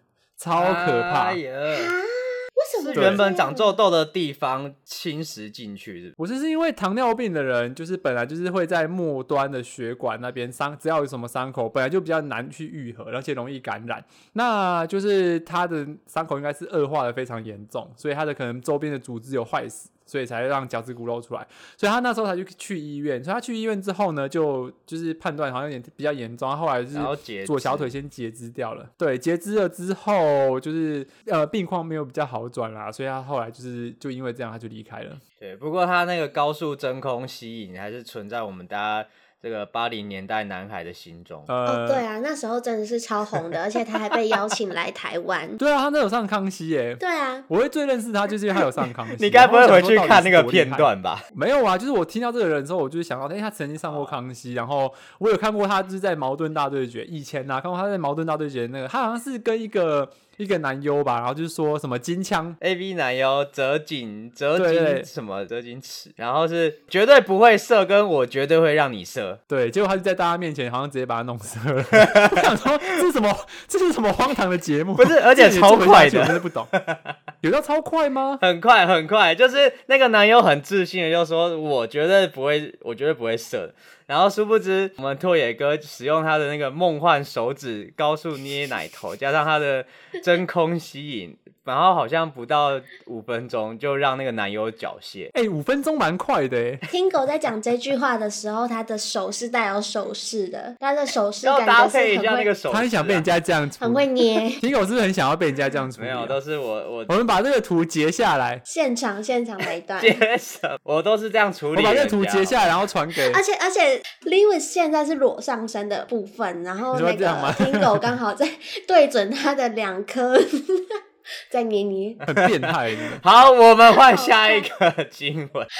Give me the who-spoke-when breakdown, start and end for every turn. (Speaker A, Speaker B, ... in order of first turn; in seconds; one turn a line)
Speaker A: 0.4-1.4
Speaker B: 0.5-1.9
Speaker C: 1.7-3.8
Speaker B: 2.8-6.1
Speaker A: 2.9-3.2
Speaker A: 6.2-35.2
Speaker B: 26.9-27.9
Speaker B: 35.4-41.5
Speaker A: 41.5-42.0
Speaker C: 41.6-45.6
Speaker A: 45.6-62.6
Speaker C: 47.0-47.5
Speaker B: 49.1-51.2
Speaker B: 53.8-54.2
Speaker B: 62.6-69.4
Speaker A: 64.5-65.1
Speaker A: 69.5-76.7
Speaker B: 75.0-77.1
Speaker A: 77.4-78.4
Speaker B: 78.4-95.3
Speaker A: 95.3-96.8
Speaker C: 96.9-102.5
Speaker B: 101.4-103.3
Speaker A: 102.7-106.4
Speaker C: 103.8-104.6
Speaker B: 106.0-107.1
Speaker A: 107.1-108.6
Speaker C: 108.7-110.2
Speaker B: 110.0-112.7
Speaker A: 111.7-113.4
Speaker C: 113.3-120.9
Speaker A: 116.9-118.1
Speaker C: 121.5-122.2
Speaker A: 122.3-123.2
Speaker B: 123.1-125.7
Speaker C: 123.9-124.7